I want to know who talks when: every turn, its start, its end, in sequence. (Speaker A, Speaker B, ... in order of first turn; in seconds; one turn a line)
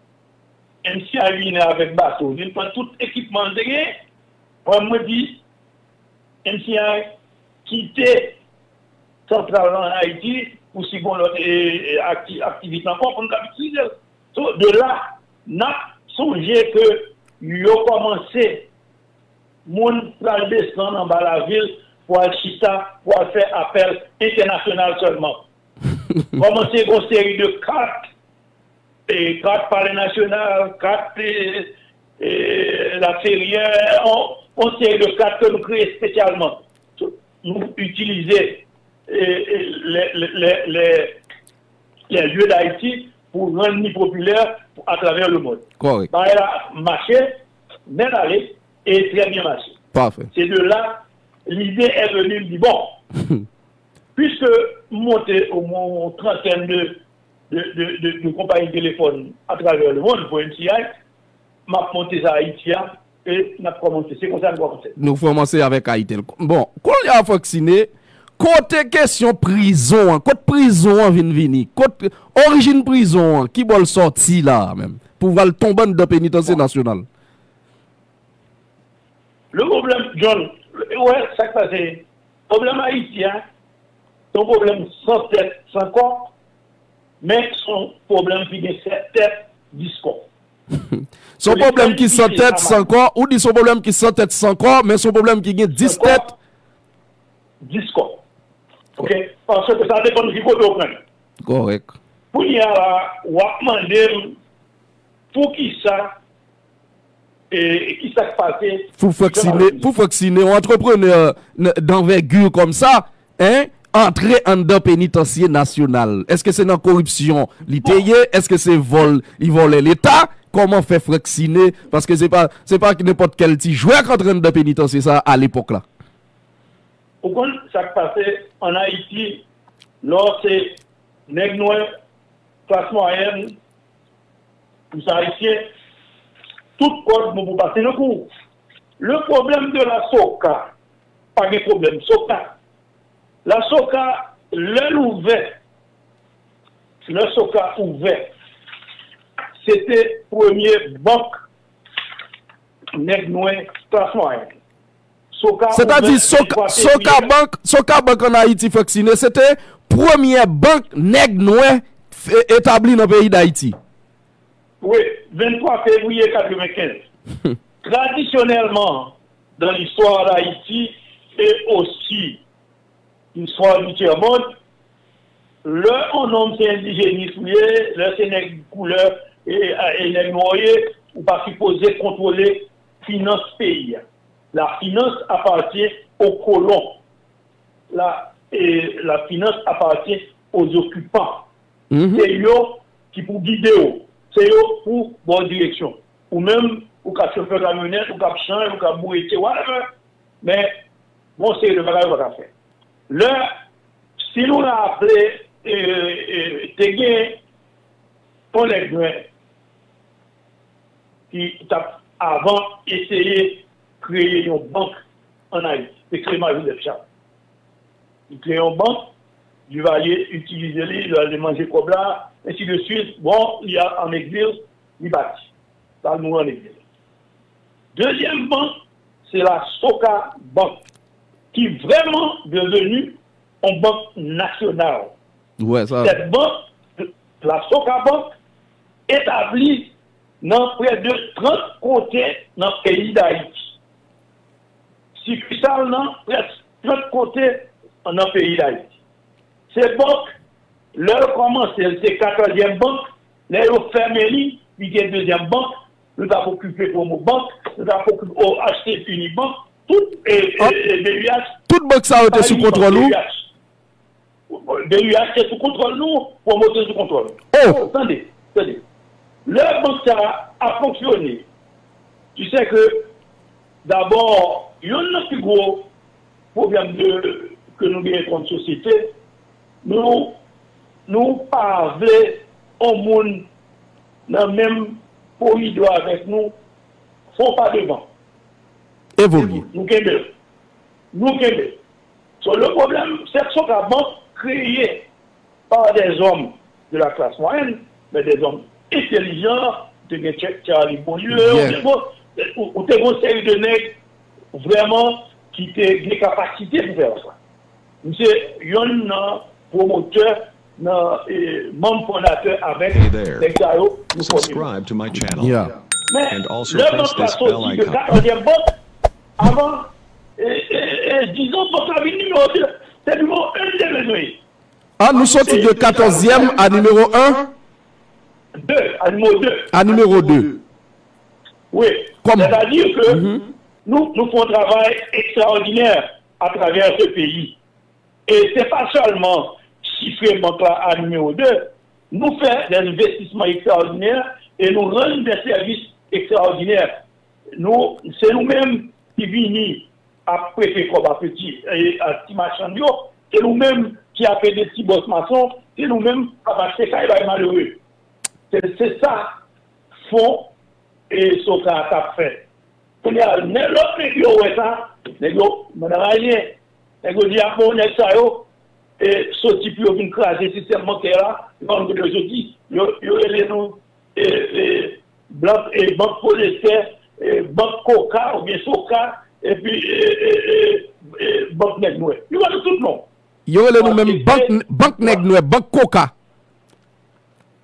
Speaker A: 0.8-3.9
Speaker A: 4.6-5.4
Speaker A: 6.4-7.1
Speaker A: 7.6-8.4
Speaker A: 9.3-18.7
Speaker A: 19.6-25.4
Speaker A: 26.4-28.1
Speaker A: 29.1-41.2
Speaker A: 42.1-47.3
Speaker B: 45.8-46.1
Speaker A: 47.9-49.8
Speaker B: 49.9-50.3
Speaker A: 50.3-53.0
Speaker A: 54.1-60.9
Speaker A: 61.7-65.0
Speaker B: 65.0-77.0
Speaker A: 79.5-83.4
Speaker A: 84.3-86.3
Speaker A: 87.2-90.3
Speaker B: 90.7-96.2
Speaker A: 91.5-92.9
Speaker A: 95.8-96.3
Speaker A: 97.6-98.2
Speaker A: 99.0-101.0
Speaker B: 101.4-101.9
Speaker A: 102.3-104.4
Speaker A: 105.3-106.1
Speaker A: 107.5-109.9
Speaker B: 109.0-125.8
Speaker A: 127.2-129.4
Speaker A: 130.0-130.8
Speaker A: 131.3-131.9
Speaker A: 132.7-133.6
Speaker A: 134.9-135.7
Speaker A: 136.8-138.3
Speaker A: 139.0-140.7
Speaker A: 141.3-142.5
Speaker A: 143.4-145.5
Speaker A: 147.1-148.3
Speaker A: 149.6-151.4
Speaker A: 152.9-154.5
Speaker A: 155.3-157.3
Speaker B: 155.7-163.8
Speaker A: 164.8-167.0
Speaker A: 167.8-172.4
Speaker A: 173.3-174.4
Speaker A: 175.6-184.0
Speaker A: 184.5-187.0
Speaker A: 187.9-191.4
Speaker B: 191.9-192.3
Speaker A: 192.1-199.8
Speaker A: 200.4-200.7
Speaker A: 201.4-202.5
Speaker A: 203.1-203.4
Speaker A: 204.2-207.4
Speaker A: 208.5-209.3
Speaker A: 211.3-214.9
Speaker A: 215.5-217.0
Speaker A: 218.3-219.1
Speaker A: 219.7-225.5
Speaker A: 226.0-226.8
Speaker A: 227.9-228.7
Speaker A: 229.3-230.8
Speaker A: 231.5-235.1
Speaker B: 235.6-236.2
Speaker A: 236.0-238.3
Speaker A: 239.1-239.9
Speaker A: 240.4-243.7
Speaker A: 245.2-248.9
Speaker A: 249.7-250.3
Speaker A: 250.9-261.5
Speaker B: 261.7-263.2
Speaker A: 262.1-263.5
Speaker A: 264.5-268.8
Speaker B: 267.5-267.8
Speaker A: 269.4-271.4
Speaker A: 272.4-273.1
Speaker A: 273.8-275.9
Speaker A: 276.5-279.1
Speaker A: 279.8-280.4
Speaker A: 281.1-283.5
Speaker A: 284.3-286.5
Speaker A: 287.3-288.0
Speaker B: 289.2-289.6
Speaker A: 289.4-290.3
Speaker A: 291.1-291.8
Speaker A: 292.4-295.1
Speaker A: 295.7-304.0
Speaker B: 301.3-301.8
Speaker A: 304.5-307.3
Speaker A: 308.0-314.7
Speaker C: 312.9-313.5
Speaker C: 314.2-315.8
Speaker B: 315.4-315.7
Speaker A: 316.1-318.8
Speaker C: 316.3-318.1
Speaker A: 319.4-324.4
Speaker B: 325.0-327.4
Speaker A: 325.1-326.6
Speaker A: 328.5-329.8
Speaker B: 329.7-330.6
Speaker A: 331.7-333.3
Speaker B: 332.2-333.4
Speaker A: 333.9-337.6
Speaker A: 338.3-346.9
Speaker A: 347.6-357.8
Speaker A: 358.5-359.3
Speaker A: 360.0-360.5
Speaker A: 361.1-362.4
Speaker A: 363.0-368.4
Speaker A: 369.0-383.1
Speaker B: 383.5-386.1
Speaker A: 383.8-385.2